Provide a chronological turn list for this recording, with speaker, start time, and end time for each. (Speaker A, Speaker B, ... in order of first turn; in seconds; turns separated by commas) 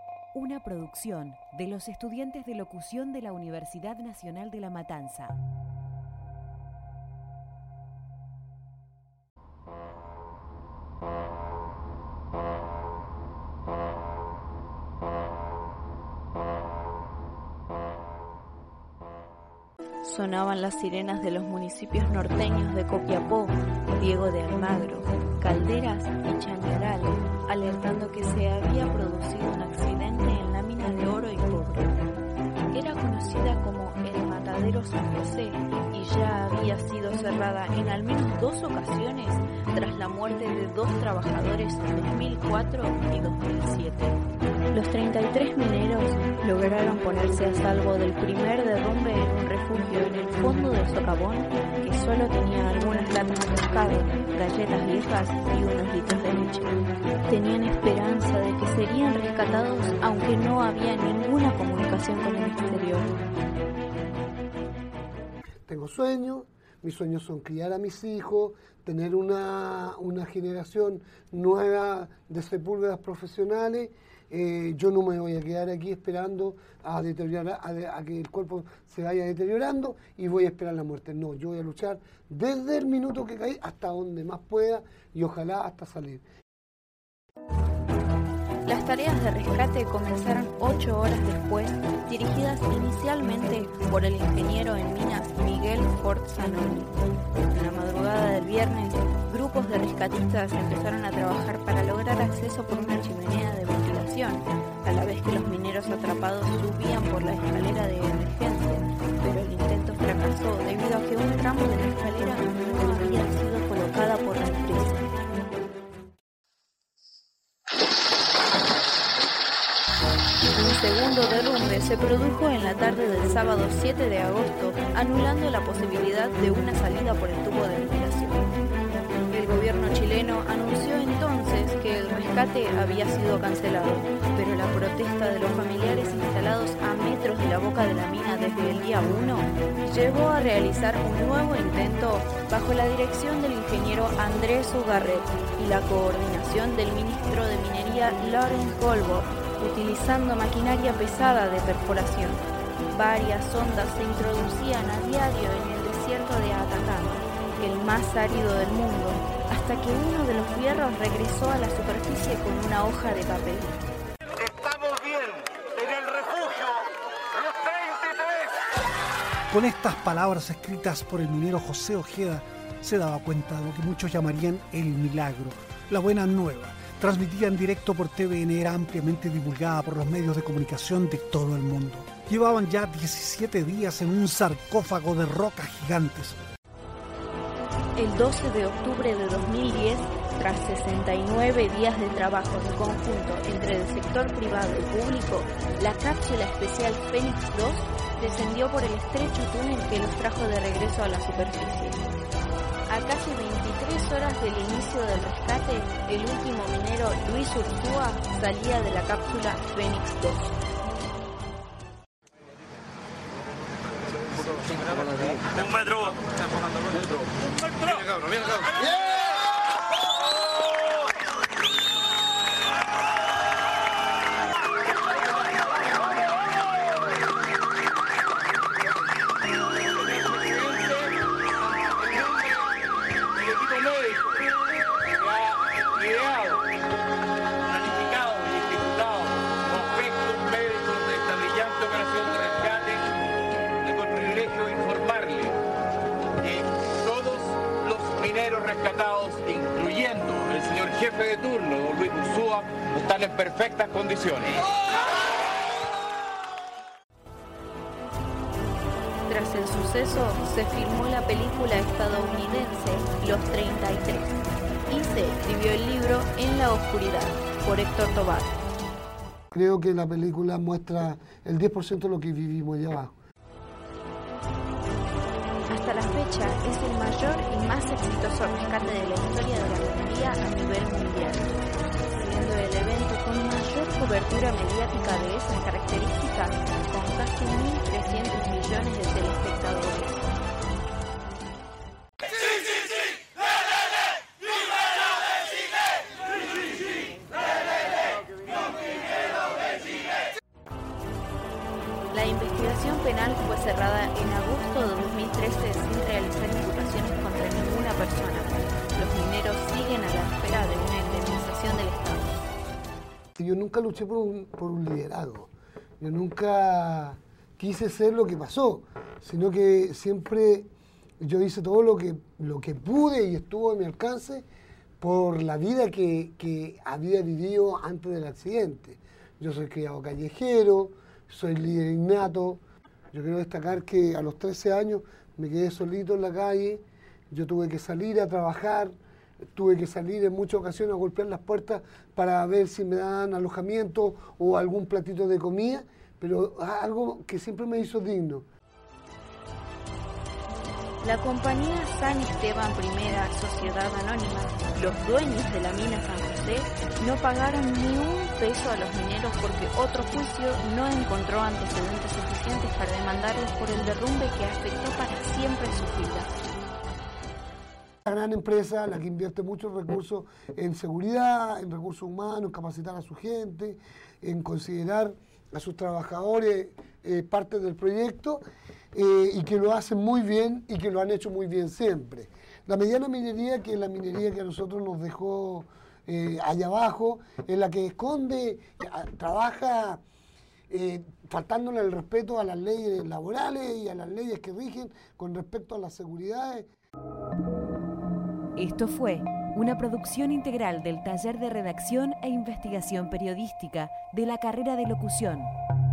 Speaker A: 0.3-5.3, Speaker B: 20.0-32.0, Speaker B: 32.7-44.2, Speaker B: 44.7-63.1, Speaker C: 65.7-86.2, Speaker B: 88.7-96.9, Speaker B: 97.5-115.0, Speaker B: 120.5-128.5, Speaker B: 129.3-163.8, Speaker D: 164.6-165.3, Speaker E: 169.5-186.3, Speaker B: 187.9-202.0, Speaker B: 202.9-210.5, Speaker D: 230.0-231.1, Speaker D: 231.9-232.6, Speaker D: 233.4-234.4, Speaker D: 235.2-236.6, Speaker D: 237.7-243.1, Speaker D: 243.8-245.6, Speaker D: 246.4-254.6, Speaker B: 259.3-268.6, Speaker C: 269.5-273.1, Speaker B: 275.7-281.6, Speaker B: 282.1-290.2, Speaker B: 302.1-312.4, Speaker C: 313.4-320.7, Speaker C: 321.2-324.4, Speaker C: 325.0-332.6, Speaker C: 333.1-338.9, Speaker C: 339.5-348.4, Speaker B: 351.0-366.3, Speaker C: 368.1-390.0, Speaker C: 390.7-396.7, Speaker A: 398.6-405.5